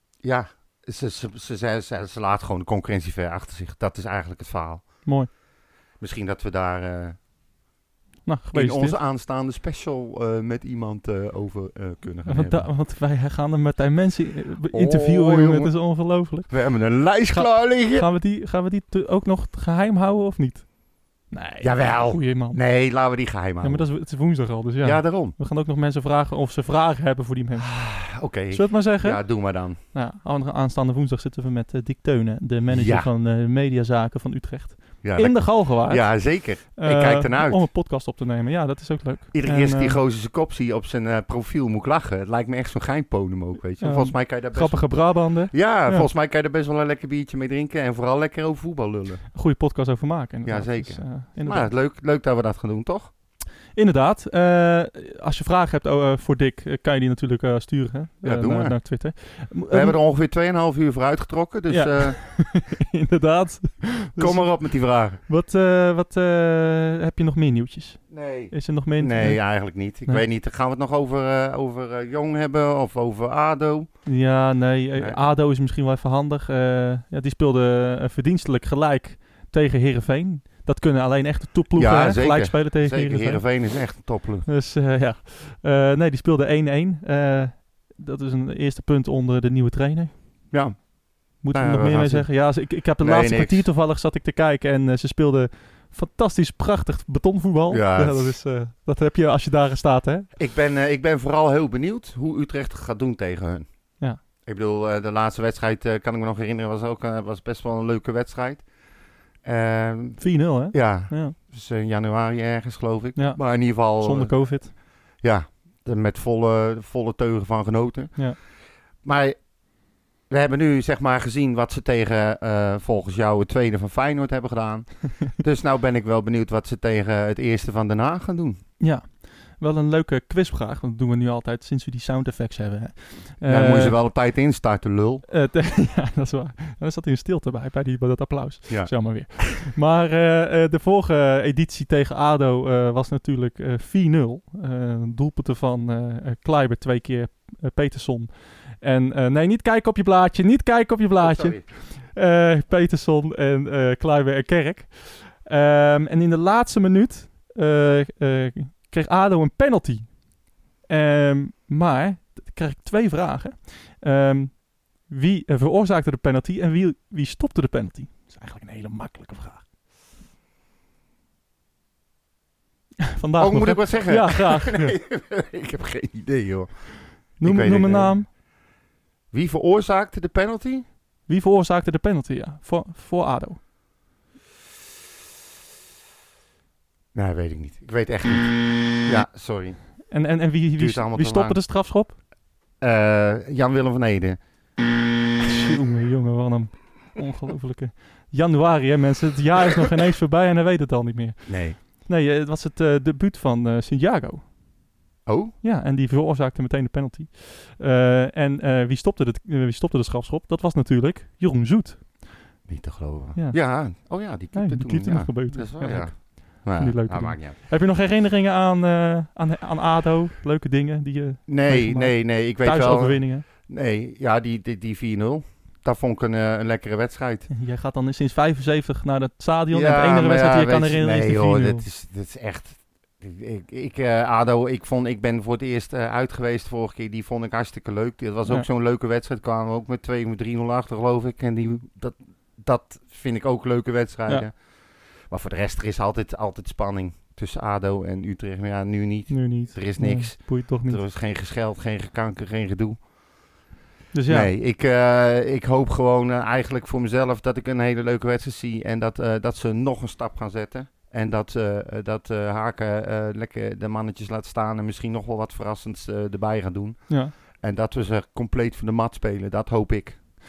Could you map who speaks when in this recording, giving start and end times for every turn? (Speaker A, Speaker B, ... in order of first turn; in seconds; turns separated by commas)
Speaker A: 0.2-5.3, Speaker A: 6.0-7.2, Speaker B: 8.2-9.0, Speaker A: 8.5-12.7, Speaker B: 12.2-23.1, Speaker A: 14.7-18.1, Speaker A: 21.6-24.3, Speaker B: 23.6-40.0, Speaker A: 24.8-25.4, Speaker A: 27.6-29.8, Speaker A: 32.7-33.1, Speaker A: 35.0-37.7, Speaker A: 39.3-49.3, Speaker B: 43.8-46.1, Speaker B: 49.3-51.7, Speaker A: 50.4-53.1, Speaker B: 53.7-60.0, Speaker A: 58.2-62.4, Speaker B: 61.7-70.2, Speaker A: 64.2-65.2, Speaker A: 68.1-74.1, Speaker B: 74.0-90.5, Speaker A: 75.0-75.2, Speaker A: 81.7-84.5, Speaker A: 90.5-93.7, Speaker B: 91.4-100.3, Speaker A: 97.7-98.4, Speaker A: 100.3-108.7, Speaker A: 109.4-118.5, Speaker B: 110.2-111.3, Speaker B: 113.2-114.7, Speaker A: 119.0-119.6, Speaker A: 120.3-128.6, Speaker B: 128.8-134.0, Speaker A: 133.4-135.3, Speaker B: 135.3-160.3, Speaker A: 138.7-139.4, Speaker A: 151.2-151.7, Speaker B: 160.8-169.7, Speaker B: 173.1-174.9, Speaker A: 173.4-178.4, Speaker B: 177.4-178.3, Speaker A: 179.3-180.9, Speaker B: 181.3-183.6, Speaker A: 187.1-191.6, Speaker B: 190.1-192.2, Speaker A: 192.8-194.4, Speaker B: 195.4-204.6, Speaker A: 201.5-201.8, Speaker A: 205.2-205.6, Speaker B: 205.6-212.5, Speaker A: 212.7-217.6, Speaker B: 213.3-223.4, Speaker A: 221.5-227.5, Speaker B: 227.5-231.8, Speaker A: 229.7-253.1, Speaker B: 249.3-251.0, Speaker B: 254.1-254.5, Speaker A: 254.3-270.2, Speaker B: 267.1-267.3